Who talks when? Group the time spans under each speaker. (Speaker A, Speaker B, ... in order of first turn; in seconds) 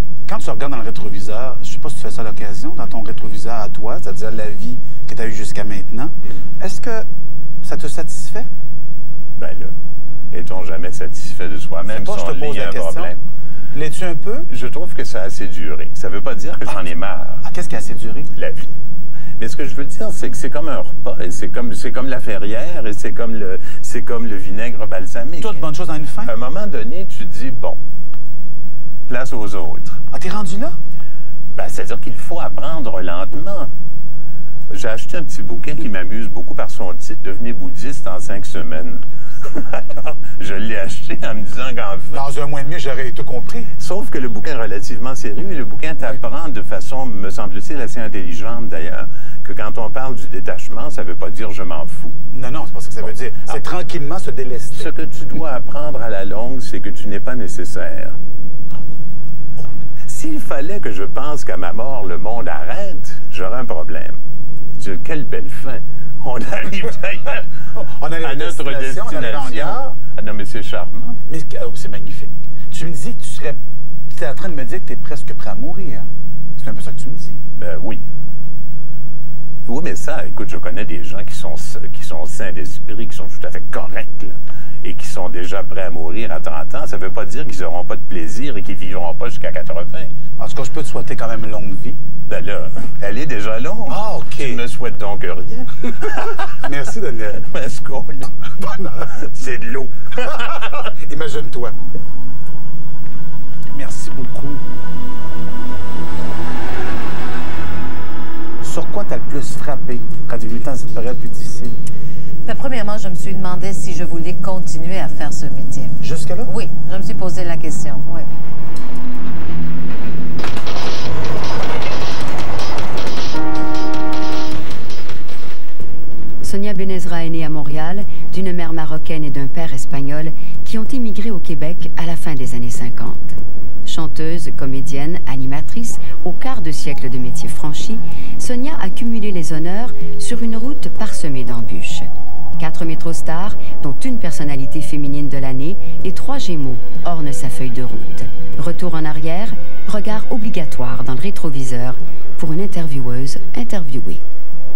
Speaker A: 0.3-7.0, 7.6-8.5, 11.8-13.1, 13.7-14.5, 17.4-18.3, 25.4-26.3, 30.1-30.8, 42.1-43.7, 52.3-54.9, 67.7-70.0, 71.3-73.6, 74.1-77.4, 90.4-92.0, 93.9-94.6, 96.0-97.5, 98.6-99.3, 100.2-101.8, 103.7-104.6, 108.6-111.8, 116.0-116.5
Speaker B: 9.3-9.7, 10.3-13.2, 14.5-17.4, 18.3-18.8, 19.4-25.6, 26.2-27.8, 29.1-30.0, 31.5-33.7, 34.7-42.2, 43.8-52.1, 54.7-58.2, 60.0-64.2, 64.8-67.5, 68.2-71.2, 77.5-78.0, 79.7-90.1, 92.3-96.5, 97.3-98.5, 99.1-99.9
Speaker C: 112.5-118.3
Speaker D: 126.4-154.2